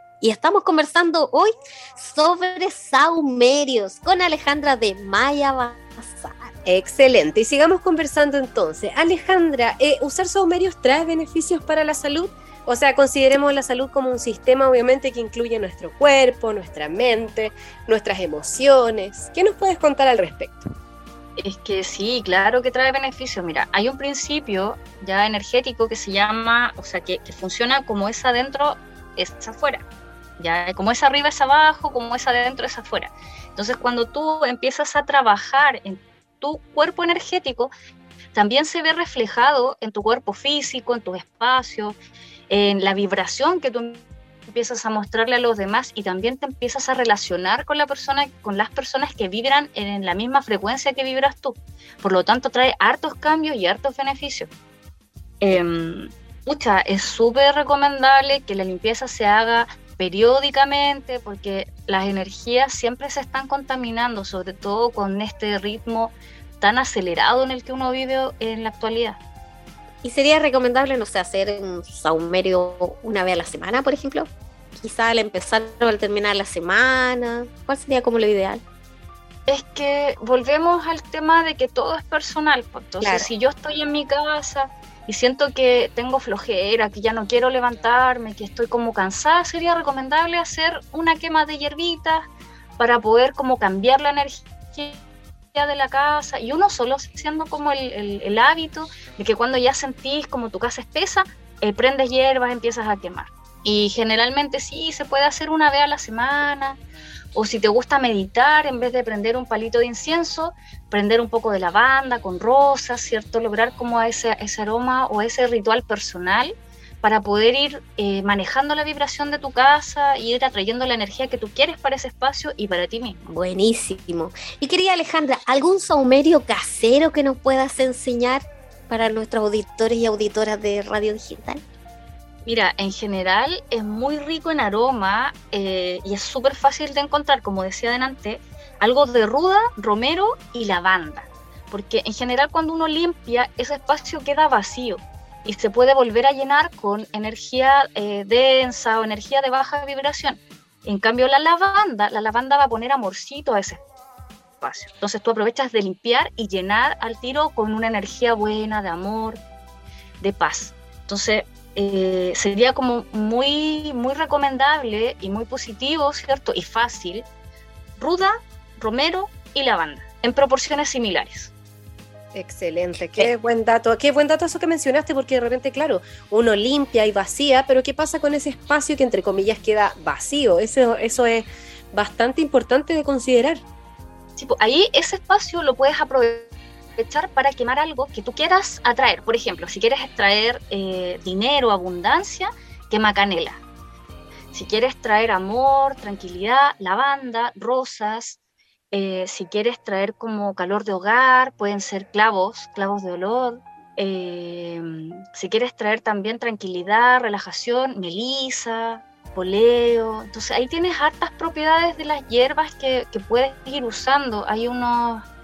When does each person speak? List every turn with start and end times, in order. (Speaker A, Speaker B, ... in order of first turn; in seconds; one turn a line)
Speaker A: 0.2-6.5
Speaker B: 6.7-20.7
Speaker C: 21.4-29.8
Speaker C: 30.4-37.7
Speaker C: 38.3-42.0
Speaker C: 42.5-54.5
Speaker C: 55.4-69.2
Speaker A: 70.0-78.6
Speaker C: 79.5-92.2
Speaker A: 83.0-83.3
Speaker C: 92.8-95.0
Speaker C: 95.5-106.8
Speaker C: 107.3-123.2
Speaker A: 123.2-131.6
Speaker C: 132.4-153.8
Speaker C: 154.6-159.4
Speaker C: 160.2-167.3
Speaker C: 168.0-171.5
Speaker B: 172.3-183.6
Speaker C: 184.3-193.6
Speaker C: 194.5-198.4
Speaker C: 198.9-215.2